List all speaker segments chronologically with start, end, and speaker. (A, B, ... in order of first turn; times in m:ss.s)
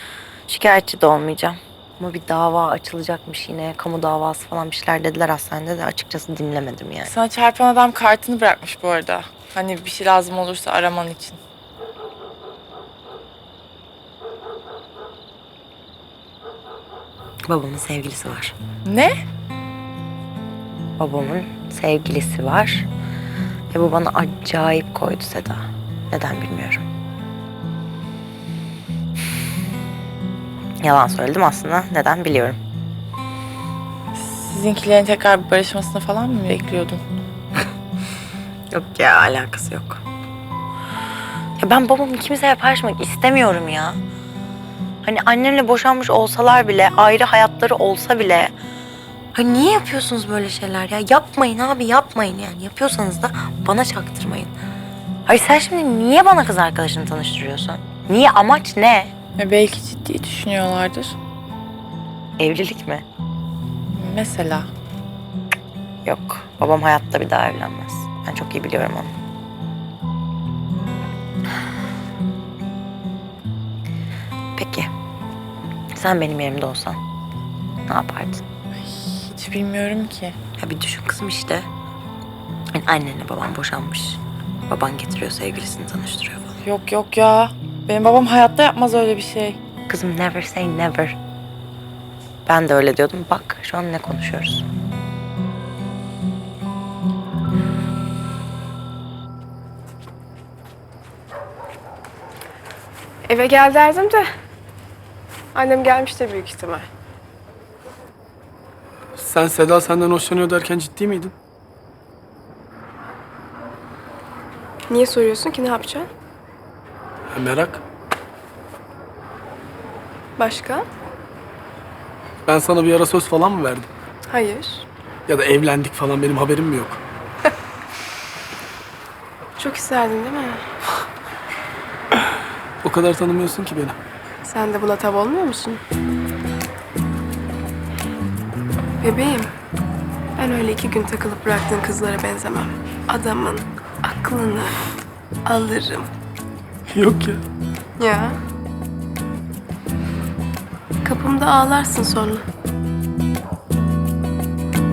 0:00.5-0:07.1 A
0:07.0-0:11.4 B
0:17.4-0:18.6 A
0:18.8-0:19.1 B
0:21.0-0:22.9 A
0:23.7-0:26.8 A
0:30.8-0:32.6 A
0:34.1-0:37.0 B
0:38.7-0:40.0 A
0:41.6-0:44.0 A
0:45.0-0:48.5 A
0:49.3-0:54.5 A
0:55.2-0:59.1 A
0:59.4-1:01.2 B
1:02.4-1:03.0 A
1:03.9-1:04.7 B
1:06.0-1:09.1 A
1:14.6-1:14.9 A
1:15.9-1:17.0 A
1:17.9-1:18.4 A
1:18.8-1:20.4 B
1:20.6-1:21.7 A
1:22.7-1:26.6 A
1:26.6-1:29.6 B
1:29.9-1:31.2 A
1:32.4-1:34.7 A
1:43.2-1:44.2 C
1:45.5-1:46.9 C
1:49.2-1:51.3 D
1:54.9-1:56.1 C
1:57.3-1:57.8 D
2:00.4-2:00.8 C
2:02.4-2:03.9 D
2:04.3-2:04.8 C
2:05.3-2:07.0 D
2:09.6-2:10.6 C
2:12.8-2:14.0 D
2:14.4-2:15.8 C
2:19.0-2:19.5 C
2:20.4-2:24.8 C
2:25.4-2:26.1 C
2:26.9-2:27.4 D
2:28.0-2:28.4 C
2:31.0-2:32.4 C